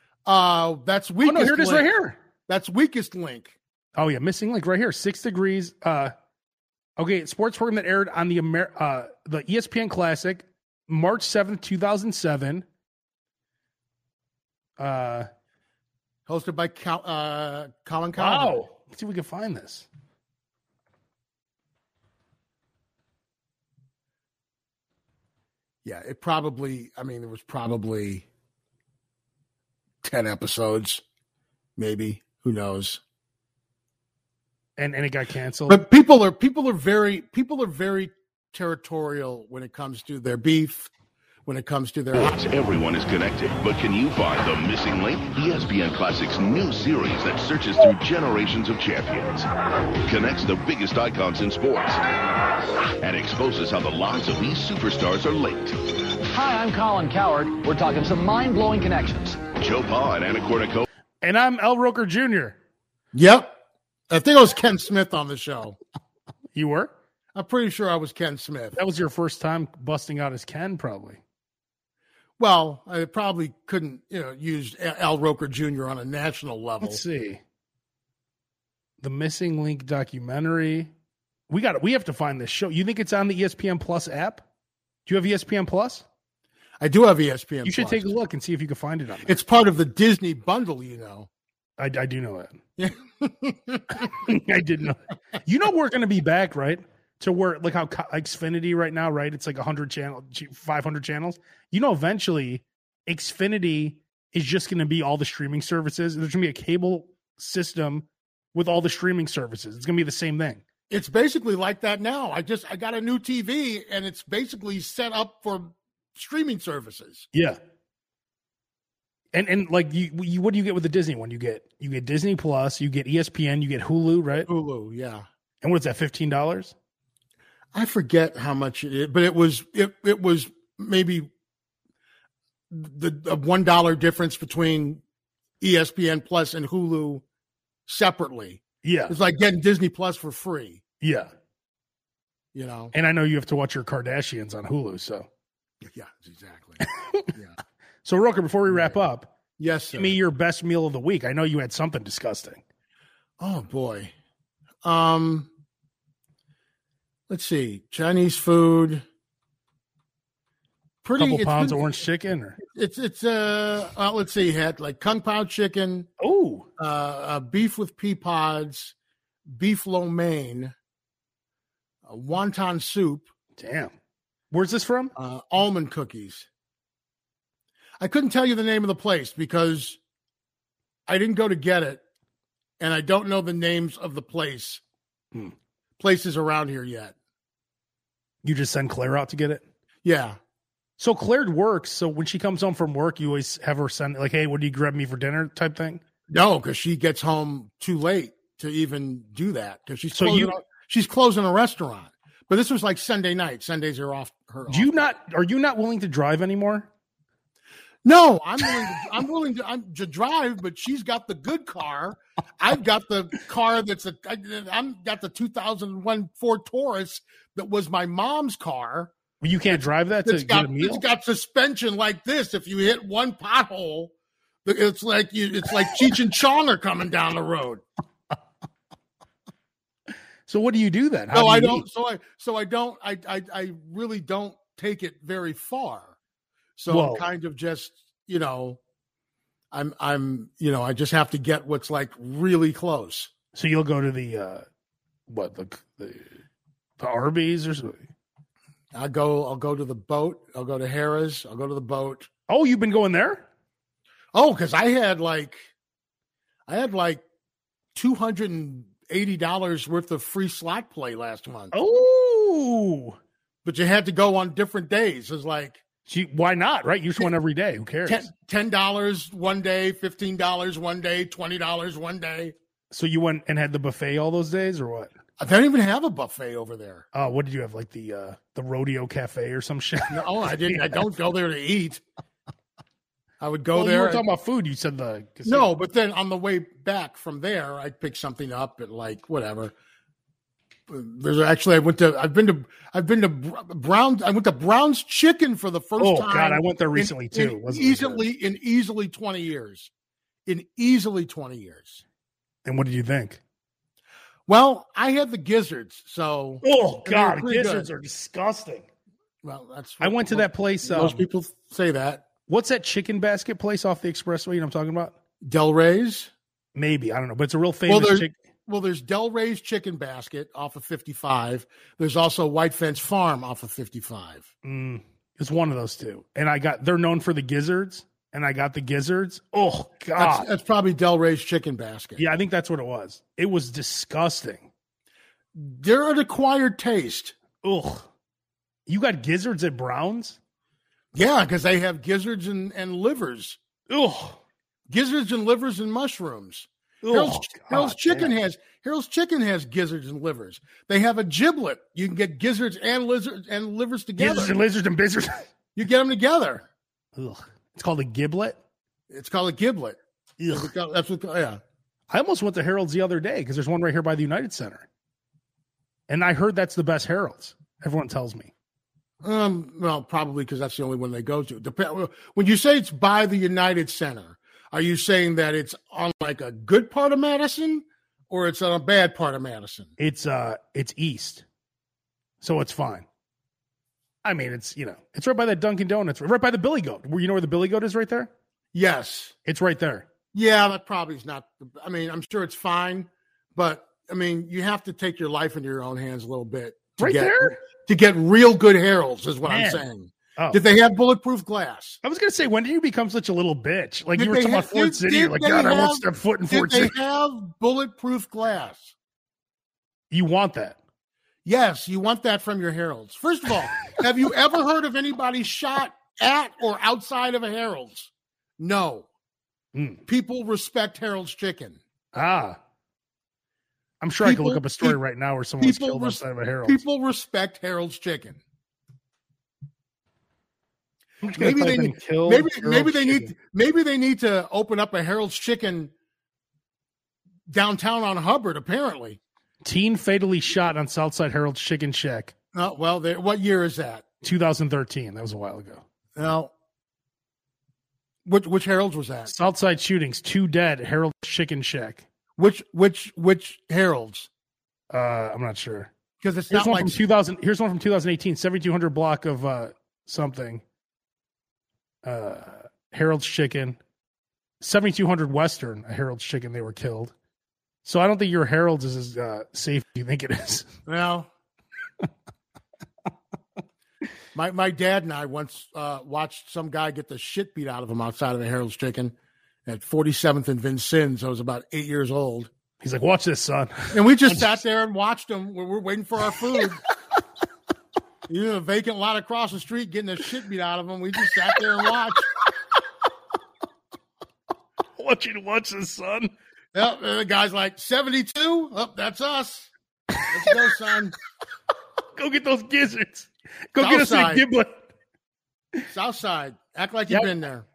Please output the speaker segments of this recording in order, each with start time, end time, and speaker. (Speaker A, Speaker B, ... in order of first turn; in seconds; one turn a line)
Speaker A: 0.2-1.9
Speaker B: 1.2-2.2
Speaker A: 2.5-3.5
Speaker B: 4.0-6.1
Speaker B: 7.0-12.7
Speaker B: 14.8-15.3
Speaker A: 16.3-18.6
Speaker B: 18.2-19.9
Speaker A: 25.9-28.3
Speaker A: 30.0-31.0
Speaker A: 31.8-33.0
Speaker B: 34.8-35.8
Speaker A: 35.7-40.9
Speaker A: 41.5-42.5
Speaker C: 42.2-49.5
Speaker C: 50.0-52.0
Speaker C: 53.0-55.8
Speaker D: 56.3-59.4
Speaker C: 59.6-60.9
Speaker B: 61.2-62.6
Speaker A: 63.1-63.6
Speaker A: 64.1-65.8
Speaker B: 66.5-66.9
Speaker A: 67.3-68.8
Speaker B: 68.8-71.2
Speaker A: 72.4-77.0
Speaker B: 76.8-77.4
Speaker B: 79.0-80.9
Speaker B: 81.5-84.4
Speaker B: 85.1-86.0
Speaker A: 86.8-88.1
Speaker B: 87.7-89.3
Speaker A: 89.3-91.3
Speaker B: 91.8-92.6
Speaker A: 92.8-94.3
Speaker B: 94.0-110.6
Speaker A: 110.9-117.3
Speaker B: 117.3-117.6
Speaker B: 119.3-124.5
Speaker A: 124.5-125.2
Speaker B: 125.6-126.7
Speaker A: 127.7-131.3
Speaker A: 132.7-135.0
Speaker A: 135.6-137.2
Speaker A: 137.9-140.8
Speaker B: 138.8-139.2
Speaker B: 141.0-141.3
Speaker A: 142.5-142.9
Speaker B: 142.9-145.3
Speaker A: 145.8-146.8
Speaker B: 146.8-147.3
Speaker B: 148.0-149.3
Speaker A: 148.7-149.0
Speaker A: 149.6-150.2
Speaker B: 149.9-152.6
Speaker A: 153.4-154.1
Speaker A: 154.8-155.5
Speaker A: 157.3-159.1
Speaker A: 161.0-161.9
Speaker B: 161.2-162.6
Speaker A: 162.6-166.1
Speaker B: 166.2-166.7
Speaker A: 166.8-168.9
Speaker A: 169.5-170.7
Speaker A: 172.1-173.3
Speaker B: 173.6-173.9
Speaker B: 174.5-175.1
Speaker A: 175.2-176.5
Speaker A: 178.0-180.0
Speaker A: 181.1-182.0
Speaker A: 182.8-184.8
Speaker A: 186.0-187.2
Speaker B: 188.4-189.6
Speaker A: 190.0-190.4
Speaker B: 191.0-196.0
Speaker A: 196.3-205.1
Speaker B: 200.1-200.6
Speaker B: 204.7-206.9
Speaker A: 208.0-219.1
Speaker B: 219.4-221.0
Speaker A: 220.2-224.1
Speaker A: 224.7-227.8
Speaker B: 230.5-231.8
Speaker A: 231.3-236.2
Speaker A: 236.8-238.8
Speaker B: 236.9-237.3
Speaker A: 239.7-243.3
Speaker B: 243.5-244.7
Speaker B: 245.3-246.4
Speaker B: 247.0-248.1
Speaker A: 248.9-252.3
Speaker B: 252.5-253.5
Speaker A: 254.3-255.7
Speaker A: 256.7-257.2
Speaker A: 257.9-261.7
Speaker B: 261.7-263.2
Speaker A: 263.6-265.8
Speaker B: 266.1-268.3
Speaker A: 268.1-272.6
Speaker B: 272.9-275.1
Speaker A: 275.4-277.1
Speaker B: 277.1-280.8
Speaker A: 280.1-282.0
Speaker A: 283.4-284.2
Speaker B: 283.7-285.7
Speaker A: 285.5-289.7
Speaker A: 290.9-299.9
Speaker B: 296.0-298.2
Speaker A: 300.5-302.0
Speaker B: 302.6-303.4
Speaker A: 304.5-307.9
Speaker B: 306.6-308.9
Speaker A: 309.4-312.3
Speaker B: 310.0-311.2
Speaker B: 312.5-315.1
Speaker A: 315.4-316.3
Speaker B: 316.8-318.3
Speaker A: 317.9-324.5
Speaker B: 324.6-330.5
Speaker A: 330.2-332.3
Speaker B: 332.2-334.7
Speaker A: 335.5-337.4
Speaker B: 337.6-338.1
Speaker B: 338.9-340.4
Speaker A: 341.1-343.6
Speaker B: 343.9-344.4
Speaker A: 344.9-354.6
Speaker B: 347.0-348.3
Speaker B: 354.2-355.5
Speaker A: 355.8-356.7
Speaker B: 357.2-358.6
Speaker A: 359.1-360.0
Speaker B: 360.4-360.7
Speaker A: 360.5-361.6
Speaker B: 362.1-364.9
Speaker B: 366.1-368.5
Speaker A: 369.2-379.9
Speaker B: 380.0-381.4
Speaker B: 382.4-383.1
Speaker B: 384.2-388.3
Speaker A: 388.7-389.4
Speaker B: 389.5-390.1
Speaker A: 390.3-402.0
Speaker B: 397.0-397.6
Speaker B: 399.5-399.9
Speaker B: 402.0-407.0
Speaker A: 404.1-408.9
Speaker B: 410.1-410.8
Speaker A: 411.4-419.1
Speaker B: 419.8-420.0
Speaker A: 420.1-421.8
Speaker B: 422.1-422.6
Speaker B: 424.0-426.8
Speaker A: 424.2-425.0
Speaker A: 425.6-428.4
Speaker B: 431.2-433.3
Speaker A: 431.3-435.9
Speaker A: 437.5-439.2
Speaker B: 439.6-442.3
Speaker A: 442.5-444.0
Speaker B: 444.2-445.8
Speaker A: 446.2-446.5
Speaker A: 448.2-449.3
Speaker B: 449.3-452.0
Speaker A: 452.4-454.3
Speaker B: 454.9-455.9
Speaker A: 456.2-457.0
Speaker B: 456.5-460.6
Speaker B: 462.0-463.8
Speaker B: 464.6-467.1
Speaker B: 467.9-470.8
Speaker A: 470.9-471.3
Speaker A: 474.3-479.1
Speaker A: 479.7-482.5
Speaker B: 482.8-484.5
Speaker A: 483.9-486.8
Speaker A: 488.3-492.3
Speaker B: 495.0-496.3
Speaker A: 496.7-499.7
Speaker B: 500.2-500.5
Speaker A: 500.2-501.1
Speaker B: 502.1-504.9
Speaker A: 503.8-504.4
Speaker A: 505.9-507.7